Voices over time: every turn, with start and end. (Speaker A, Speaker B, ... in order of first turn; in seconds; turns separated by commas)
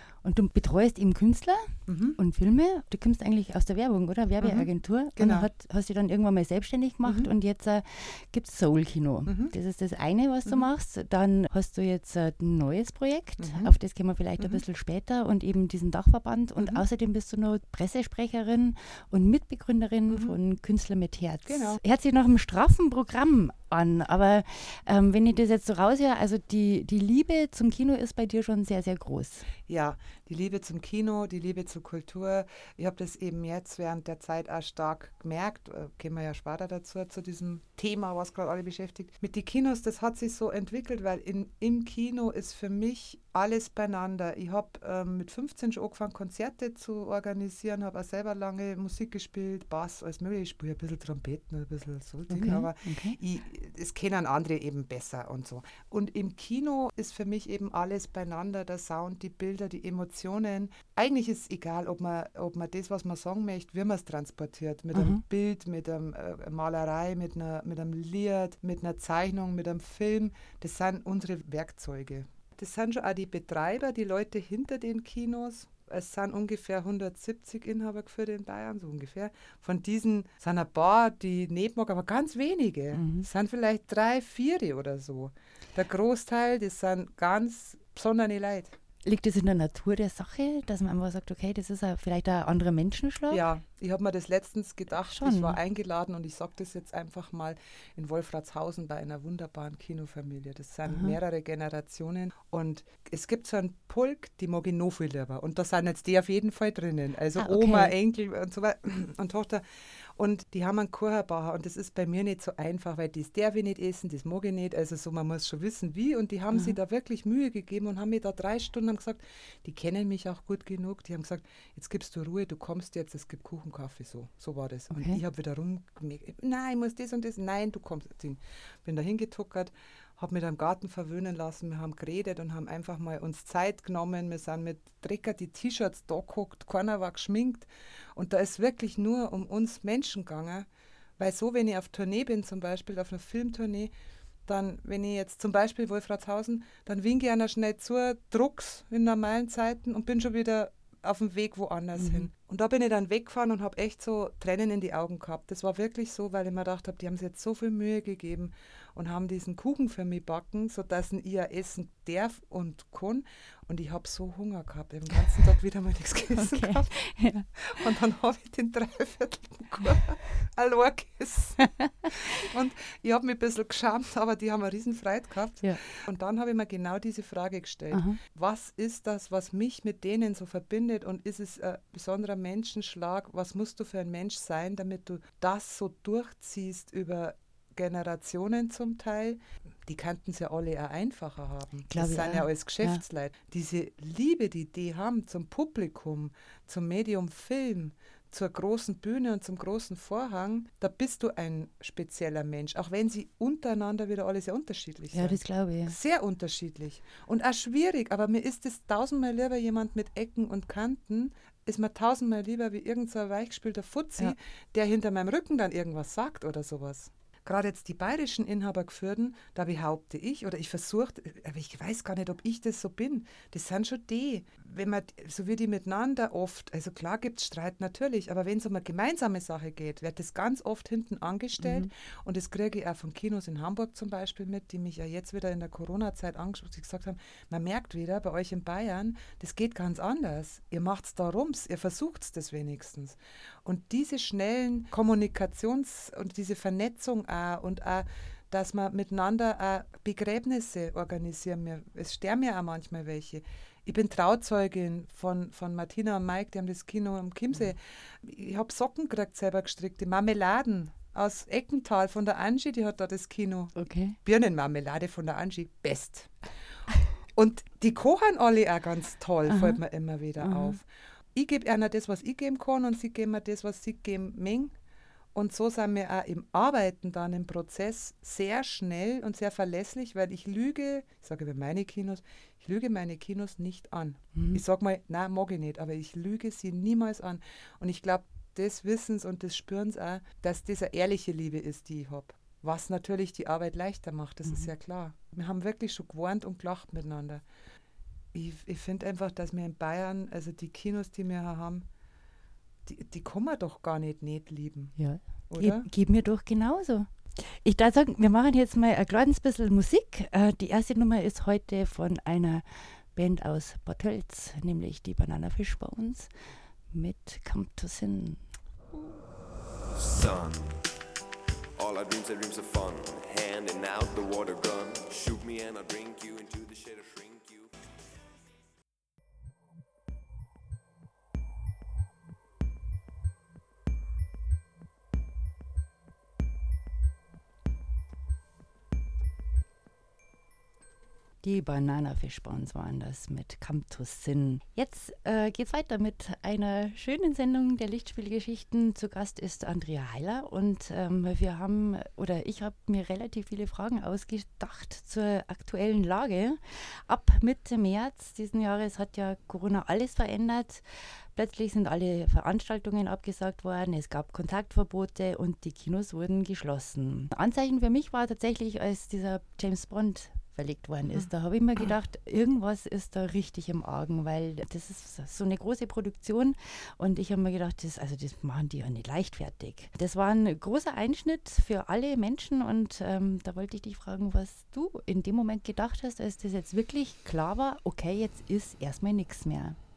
Speaker A: 0.2-29.5, Speaker B: 1.9-2.2, Speaker B: 4.4-5.5, Speaker B: 7.1-7.3, Speaker B: 9.3-9.6, Speaker B: 13.4-13.7, Speaker B: 16.6-16.8, Speaker B: 20.1-20.4, Speaker B: 21.5-21.8, Speaker B: 29.7-88.8, Speaker A: 52.3-53.2, Speaker A: 64.9-65.2, Speaker A: 82.9-83.3, Speaker A: 89.0-93.5, Speaker B: 93.3-143.9, Speaker A: 95.0-95.6, Speaker A: 100.9-101.2, Speaker A: 107.4-107.9, Speaker A: 124.9-125.2, Speaker B: 144.5-166.9, Speaker A: 152.0-152.3, Speaker A: 166.4-167.5, Speaker B: 167.6-266.4, Speaker A: 171.6-172.1, Speaker A: 177.9-178.2, Speaker A: 191.9-193.0, Speaker A: 205.1-206.0, Speaker A: 231.6-231.9, Speaker A: 263.8-264.2, Speaker B: 267.3-274.8, Speaker A: 269.5-269.8, Speaker A: 270.4-270.8, Speaker B: 275.3-297.4, Speaker A: 284.4-284.6, Speaker B: 298.3-301.9, Speaker B: 302.9-305.0, Speaker A: 305.0-316.3, Speaker B: 305.5-305.9, Speaker A: 316.9-318.4, Speaker C: 319.9-320.8, Speaker C: 321.8-327.7, Speaker A: 341.4-360.8, Speaker A: 361.4-389.8